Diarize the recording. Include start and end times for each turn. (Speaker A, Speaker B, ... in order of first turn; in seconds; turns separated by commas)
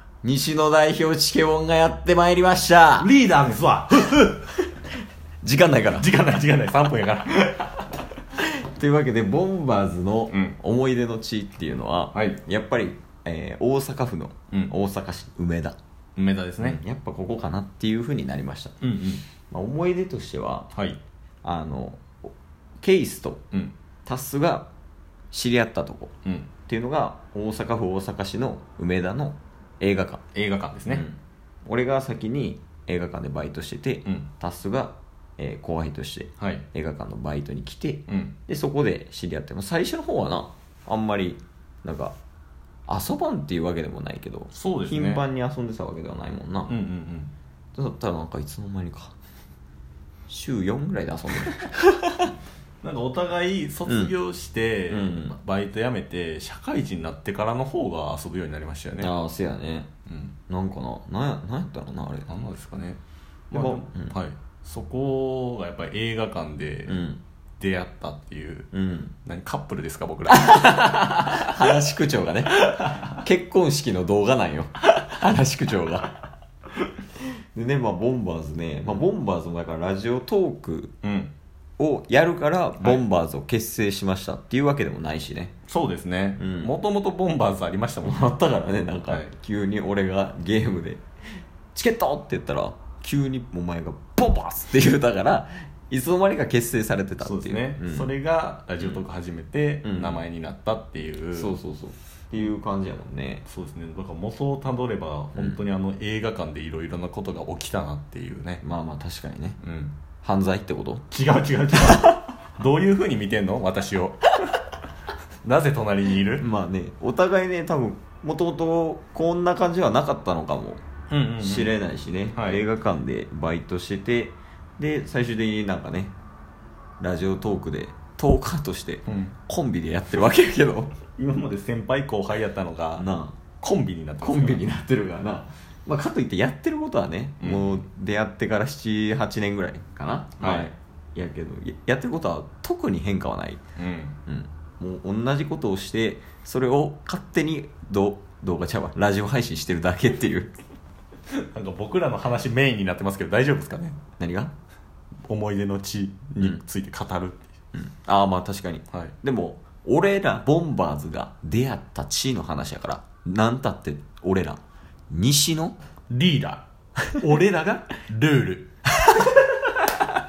Speaker A: 0.2-3.1, Speaker B: 3.0-4.5, Speaker A: 5.4-6.1, Speaker B: 5.9-7.8, Speaker A: 8.4-15.8, Speaker B: 10.3-10.6, Speaker B: 12.1-12.4, Speaker B: 16.1-16.8, Speaker A: 16.6-18.8, Speaker B: 18.8-19.2, Speaker A: 19.5-20.7, Speaker B: 20.7-21.0, Speaker A: 21.4-22.3, Speaker A: 22.8-23.4, Speaker A: 24.1-24.7, Speaker A: 25.3-26.1, Speaker A: 26.7-30.2, Speaker B: 30.3-31.0, Speaker A: 30.9-42.1, Speaker B: 36.4-36.6, Speaker B: 38.1-38.4, Speaker A: 42.9-46.7, Speaker B: 44.5-45.2, Speaker B: 46.7-47.3, Speaker A: 47.8-49.1, Speaker A: 50.3-52.3, Speaker B: 52.8-59.1, Speaker A: 53.9-54.1, Speaker A: 54.9-55.3, Speaker A: 59.0-59.9, Speaker B: 60.1-60.4, Speaker A: 60.5-62.3, Speaker B: 62.3-63.0, Speaker B: 63.5-67.0, Speaker A: 63.5-64.2, Speaker A: 66.9-67.2, Speaker B: 67.6-68.7, Speaker A: 68.7-69.1, Speaker B: 69.2-71.5, Speaker A: 70.3-76.2, Speaker A: 77.5-80.9, Speaker B: 81.0-81.3, Speaker A: 81.8-85.5, Speaker B: 85.7-88.3, Speaker A: 86.4-86.7, Speaker A: 88.0-91.0, Speaker A: 91.7-98.1, Speaker B: 97.2-101.6, Speaker A: 99.8-100.2, Speaker A: 101.3-103.4, Speaker B: 103.5-108.6, Speaker A: 105.3-105.6, Speaker A: 108.6-109.6, Speaker B: 109.6-110.0, Speaker A: 110.2-111.0, Speaker B: 111.1-114.3, Speaker B: 115.4-116.5, Speaker A: 116.4-120.8, Speaker B: 121.1-121.7, Speaker A: 121.4-126.1, Speaker B: 122.3-122.6, Speaker A: 127.0-130.9, Speaker B: 129.1-129.3, Speaker B: 131.2-133.1, Speaker A: 133.0-133.4, Speaker B: 133.6-134.7, Speaker A: 134.2-143.6, Speaker B: 137.4-137.8, Speaker B: 140.4-140.7, Speaker B: 143.8-144.2, Speaker A: 144.3-150.5, Speaker B: 151.3-154.0, Speaker A: 154.2-154.5, Speaker B: 155.3-157.5, Speaker A: 157.7-165.8, Speaker B: 166.1-166.6, Speaker B: 167.2-168.7